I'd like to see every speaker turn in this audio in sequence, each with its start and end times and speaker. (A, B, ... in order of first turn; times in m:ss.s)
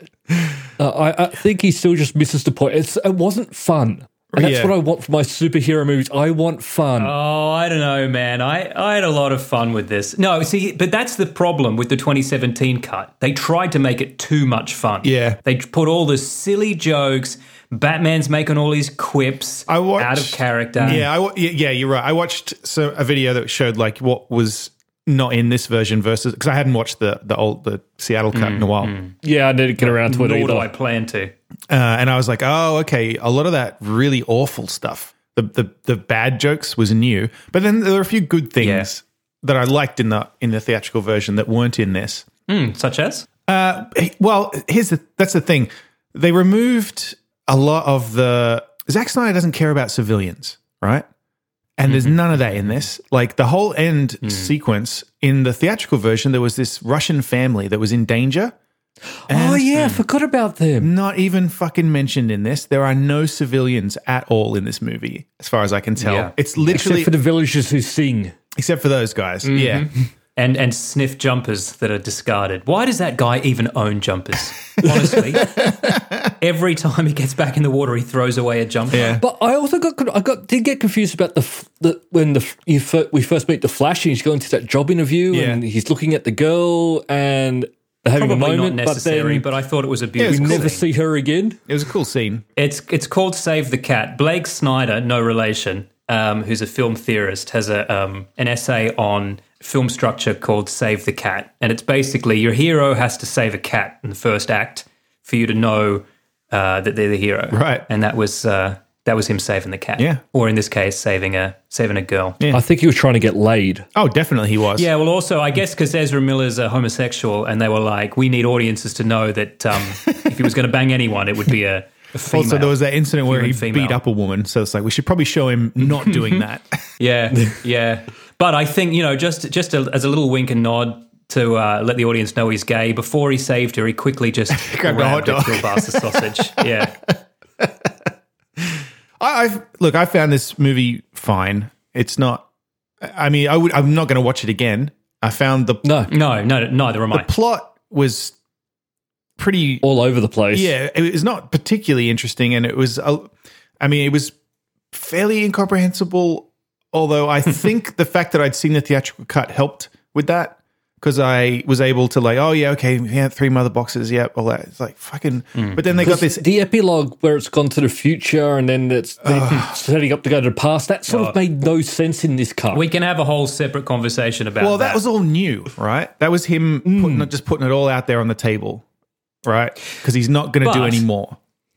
0:00.8-0:07.1 A
0:04.3-0:04.7 B
0:07.0-0:21.0 C
0:15.0-0:15.4 B
0:19.7-0:28.9 B
0:28.3-0:29.1 C
0:29.2-0:30.7 A
0:29.8-0:31.3 C
0:31.7-0:42.3 B
0:38.6-0:38.9 C
0:42.5-0:43.2 C
0:43.5-0:51.0 B
0:51.8-0:58.5 B
0:51.8-0:52.2 C
0:54.2-0:54.5 C
0:59.3-1:00.9 A
0:59.3-1:00.0 B
1:00.8-1:07.1 B
1:06.0-1:06.3 C
1:06.6-1:08.4 A
1:08.6-1:09.9 B
1:09.4-1:15.8 C
1:15.4-1:16.3 B
1:16.4-1:19.2 C
1:18.9-1:19.2 B
1:19.2-1:29.5 A
1:25.3-1:25.6 B
1:28.2-1:30.8 C
1:30.2-1:30.7 B
1:30.2-1:31.6 A
1:31.7-1:32.4 B
1:32.6-1:52.4 C
1:47.5-1:47.8 B
1:52.5-1:53.8 A
1:53.9-1:54.9 B
1:54.7-2:04.0 C
1:59.9-2:00.4 B
2:02.3-2:06.8 B
2:05.8-2:06.4 C
2:07.0-2:17.0 C
2:14.5-2:17.9 B
2:18.6-2:22.4 B
2:23.0-2:25.8 B
2:25.8-2:26.1 A
2:26.1-2:27.3 C
2:27.1-2:28.4 B
2:29.4-2:29.8 B
2:29.8-2:30.7 A
2:30.5-2:34.3 B
2:34.9-2:46.4 B
2:45.5-2:45.8 C
2:46.0-2:52.8 A
2:49.2-2:49.8 B
2:51.1-2:51.4 C
2:52.7-2:55.0 C
2:54.6-2:58.8 B
2:56.8-2:57.3 A
2:59.4-3:01.4 B
3:00.6-3:01.0 C